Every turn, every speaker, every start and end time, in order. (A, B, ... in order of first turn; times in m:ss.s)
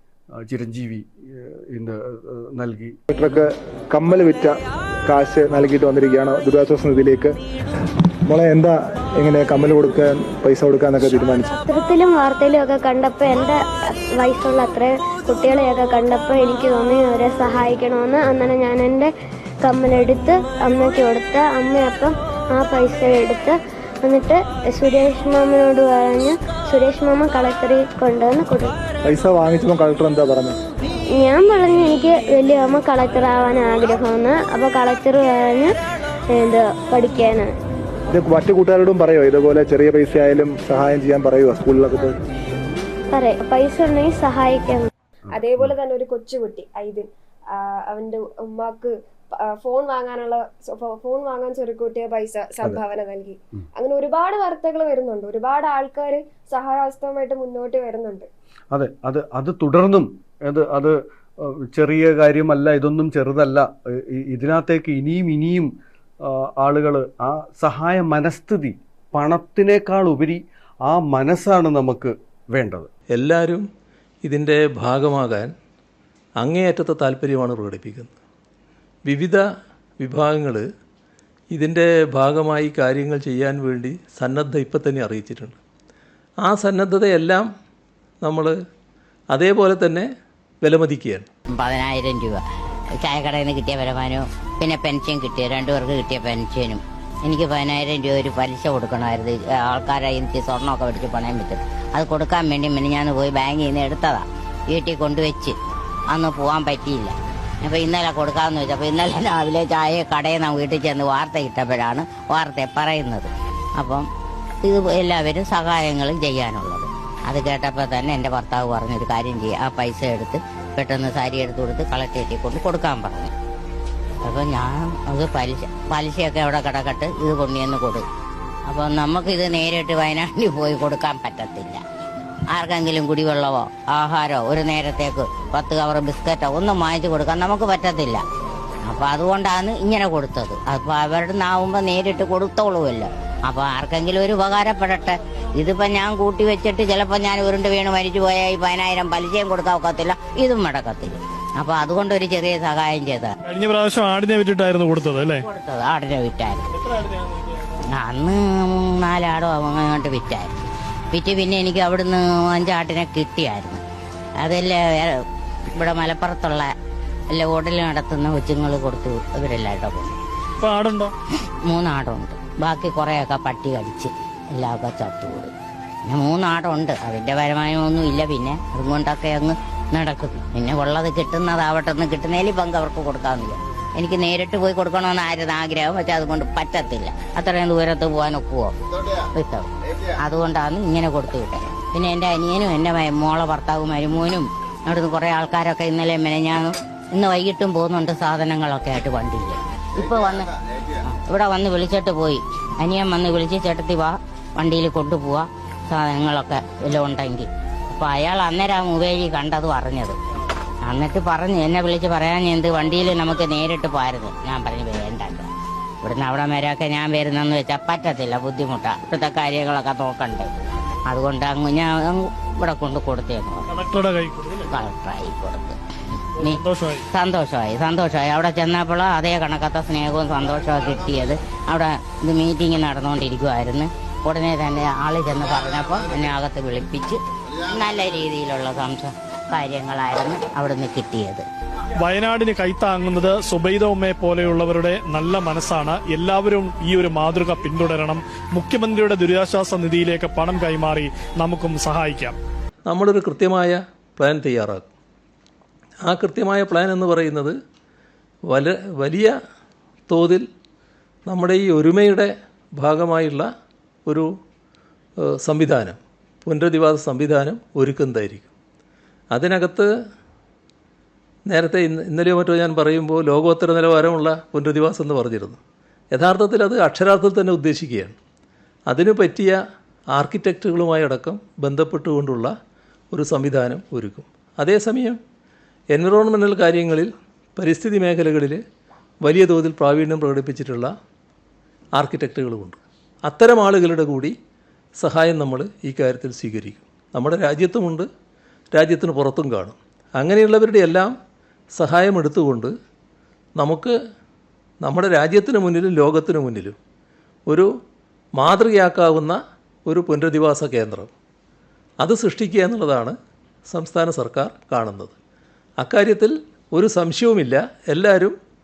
0:00.4-0:03.0 A
0:03.1-0:07.3 B
0:08.3-0:11.5 B
0:11.5-0:13.6 C
0:14.2-0:19.1 C
0:19.6-0:28.7 C
0:29.1-0:30.5 B
0:31.2-0:35.7 C
0:36.3-0:37.5 C
0:38.1-0:42.1 B
0:43.1-0:44.9 C
0:45.3-0:58.3 D
0:58.7-1:05.7 A
1:06.2-1:12.9 A
1:13.1-1:13.6 E
1:14.2-1:15.5 E
1:16.4-1:18.1 E
1:19.0-1:19.4 E
1:20.0-1:20.6 E
1:21.5-1:25.6 E
1:26.4-1:27.5 E
1:28.2-1:28.6 E
1:29.3-1:30.1 E
1:30.6-1:31.3 E
1:31.5-1:32.4 F
1:33.0-1:45.6 F
1:46.1-1:54.0 F
1:54.6-2:03.3 F
2:04.2-2:08.0 F
2:08.7-2:11.8 F
2:12.5-2:18.2 F
2:18.9-2:33.3 F
2:33.4-2:35.4 G
2:35.4-2:36.7 F
2:37.9-2:40.5 F
2:41.1-2:43.8 F
2:44.4-2:46.7 F
2:47.3-2:50.2 F
2:50.6-2:51.1 G
2:51.6-2:55.5 F
2:56.1-3:08.7 F
3:09.3-3:09.7 F
3:10.2-3:20.5 F
3:21.0-3:30.2 F
3:30.8-3:35.5 F
3:36.0-3:40.5 F
3:41.1-3:43.7 F
3:43.7-3:44.7 G
3:44.7-3:45.8 F
3:46.4-4:01.4 F
3:46.4-3:47.0 G
4:02.0-4:12.4 G
4:12.9-4:14.8 E
4:16.0-4:17.6 E
4:18.5-4:19.4 E
4:20.1-4:20.5 E
4:21.2-4:23.5 E
4:24.0-4:24.3 E
4:25.2-4:28.5 E
4:29.3-4:29.9 E
4:31.5-4:35.6 E
4:36.1-4:38.2 E
4:38.9-4:39.6 E
4:40.1-4:42.5 E
4:43.1-4:45.2 E
4:45.9-4:48.6 E
4:49.2-4:50.9 E
4:52.0-4:54.4 E
4:55.0-4:58.1 E
4:58.7-5:01.1 E
5:01.8-5:02.7 E
5:03.6-5:03.9 E
5:04.8-5:06.8 E
5:08.4-5:11.1 E
5:12.0-5:13.2 E
5:13.7-5:15.1 E
5:15.8-5:18.4 E